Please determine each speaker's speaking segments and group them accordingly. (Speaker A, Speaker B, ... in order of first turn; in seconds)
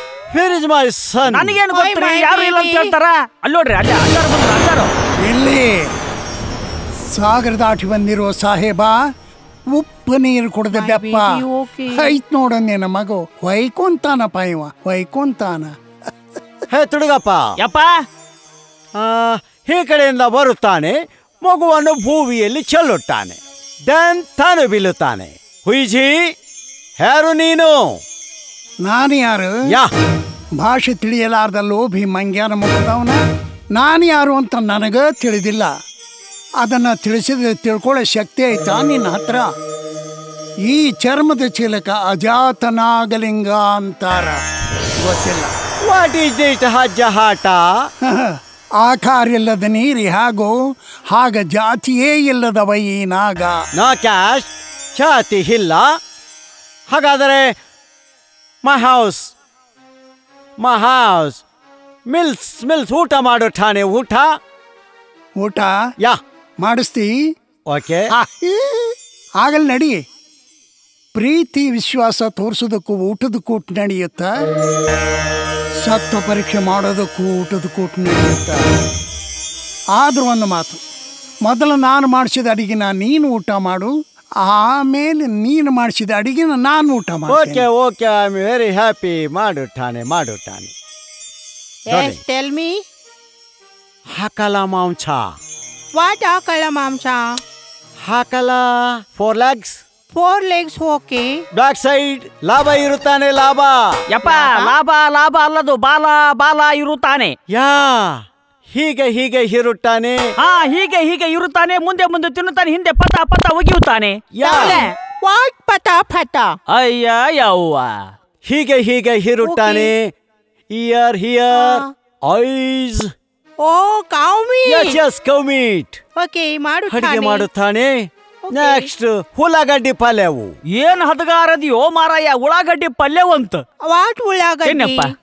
Speaker A: 0.3-1.6, 16.7-17.6, 19.0-26.3, 27.0-28.0, 45.9-47.9, 53.8-55.9, 56.9-57.5, 58.6-59.3, 60.6-61.4, 62.1-64.3, 67.7-68.1, 87.3-90.7, 91.9-92.2, 94.2-95.4, 98.0-99.8, 101.5-104.0, 107.5-110.3, 114.3-114.8, 118.5-120.1, 120.7-123.1, 124.7-126.0, 126.9-130.5
Speaker B: 1.3-4.9, 17.6-18.0, 104.1-107.3, 110.4-114.2, 116.7-118.1, 130.7-133.6, 134.7-135.1
Speaker C: 1.7-2.9, 10.7-12.2, 91.9-92.8, 96.0-97.4, 100.1-101.3, 104.2-104.7, 114.4-116.6, 119.4-119.9, 121.5-121.9, 123.6-125.0, 126.2-127.5, 128.4-128.9, 133.9-135.1
Speaker D: 5.2-5.9, 7.1-9.0, 9.7-15.7, 28.8-29.6, 30.6-33.2, 33.7-35.7, 36.6-39.5, 40.7-44.4, 45.0-45.5, 48.0-50.5, 51.1-53.6, 65.4-65.8, 66.6-67.1, 68.1-70.0, 71.2-74.3, 75.8-78.6, 80.0-80.8, 81.5-83.9, 84.4-87.7